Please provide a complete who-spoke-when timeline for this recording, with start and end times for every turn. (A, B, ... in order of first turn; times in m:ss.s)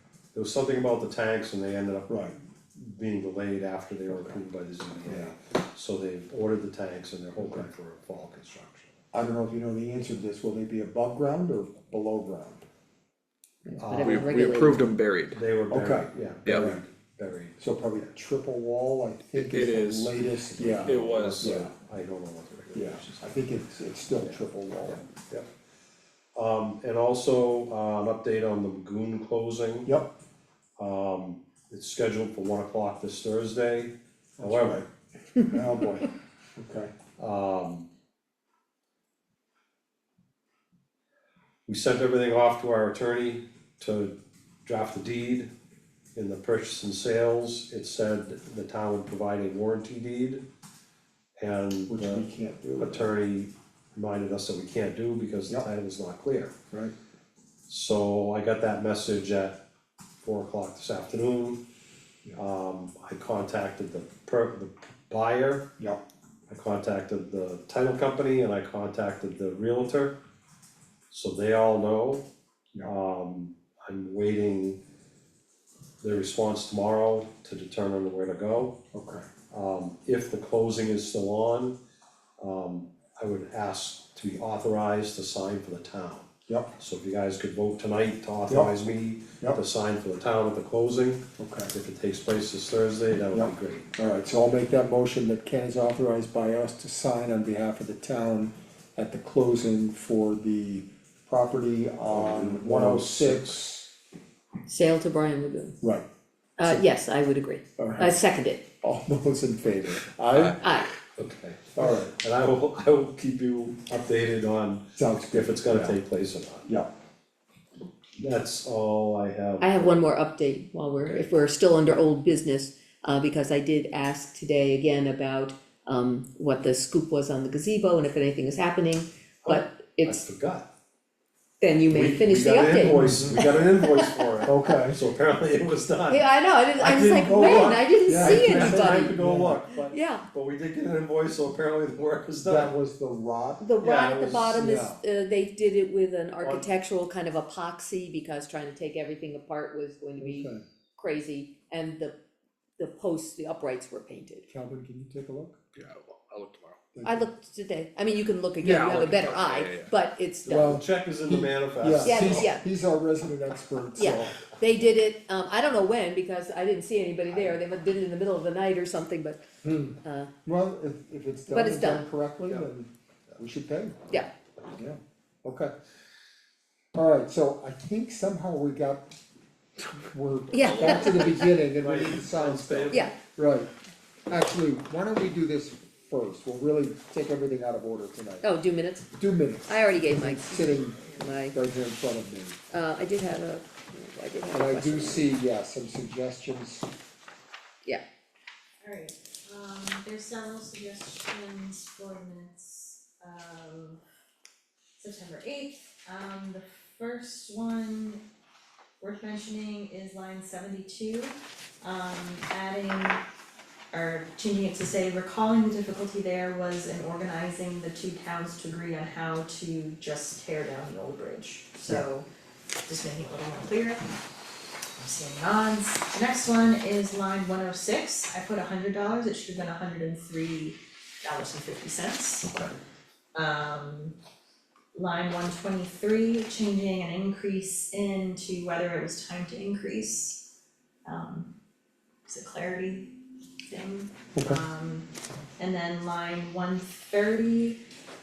0:00.3-0:08.9 A
0:02.1-0:02.3 B
0:04.1-0:04.4 B
0:05.0-0:05.3 B
0:07.4-0:07.6 B
0:09.1-0:12.6 B
0:13.6-0:14.9 C
0:13.8-0:14.7 A
0:13.9-0:15.4 D
0:15.3-0:18.1 A
0:15.7-0:16.8 B
0:16.5-0:16.7 D
0:17.6-0:21.7 B
0:19.3-0:20.1 D
0:20.5-0:23.3 A
0:20.6-0:21.6 D
0:22.7-0:25.0 B
0:24.2-0:25.5 A
0:26.4-0:29.9 A
0:29.8-0:30.1 B
0:30.8-0:34.8 A
0:34.4-0:34.9 B
0:35.4-0:36.9 B
0:37.2-0:37.9 A
0:41.7-0:44.1 A
0:44.6-0:45.5 A
0:46.1-0:50.4 A
0:51.4-0:52.2 A
0:51.9-0:53.1 B
0:52.8-0:56.5 A
0:57.7-0:59.6 A
1:00.2-1:01.6 A
1:02.3-1:05.7 A
1:06.5-1:10.2 A
1:11.1-1:12.3 A
1:12.8-1:14.8 A
1:16.0-1:18.8 A
1:18.9-1:19.2 B
1:19.5-1:21.8 A
1:22.4-1:33.9 A
1:26.5-1:26.7 B
1:28.5-1:28.7 B
1:31.4-1:31.7 B
1:33.3-1:43.9 B
1:42.1-1:43.6 A
1:44.7-1:45.8 C
1:45.8-1:46.1 B
1:46.6-1:48.6 C
1:47.8-1:48.2 B
1:48.8-1:50.6 B
1:50.6-1:50.9 C
1:51.2-1:56.7 A
1:51.8-1:52.1 B
1:55.0-1:55.9 B
1:58.2-2:00.0 A
1:59.6-2:10.2 C
2:09.4-2:10.7 A
2:11.6-2:13.6 C
2:11.9-2:22.7 A
2:12.9-2:13.5 B
2:14.5-2:15.0 B
2:16.1-2:19.1 C
2:18.0-2:19.6 B
2:19.9-2:20.2 C
2:22.4-2:23.6 B
2:23.6-2:32.2 C
2:23.8-2:24.6 A
2:24.5-2:25.0 B
2:26.4-2:26.7 A
2:30.2-2:30.6 B
2:32.8-2:34.4 C
2:34.5-2:35.6 B
2:35.7-2:36.8 D
2:36.9-2:37.3 B
2:37.0-2:40.8 C
2:38.6-2:39.9 D
2:40.4-2:44.5 B
2:40.6-2:42.5 A
2:42.0-2:42.6 C
2:44.0-2:49.4 C
2:47.3-2:47.6 B
2:49.6-2:54.0 B
2:50.0-2:50.3 C
2:51.5-2:52.0 C
2:54.7-2:55.7 B
2:56.9-2:59.1 B
2:59.8-3:03.7 B
3:00.5-3:01.4 C
3:00.6-3:01.4 D
3:01.8-3:03.1 A
3:02.9-3:03.2 C
3:04.3-3:08.5 B
3:08.4-3:09.1 C
3:09.1-3:12.6 B
3:09.7-3:11.5 C
3:12.7-3:15.3 C
3:14.5-3:16.9 B
3:18.8-3:24.0 E
3:25.0-3:28.2 E
3:29.0-3:33.2 E
3:33.9-3:42.3 E
3:42.8-3:44.1 E
3:45.0-3:52.5 E
3:53.3-3:54.2 E
3:54.9-4:00.4 E
4:01.0-4:01.5 E
4:02.2-4:03.1 E
4:03.7-4:07.8 E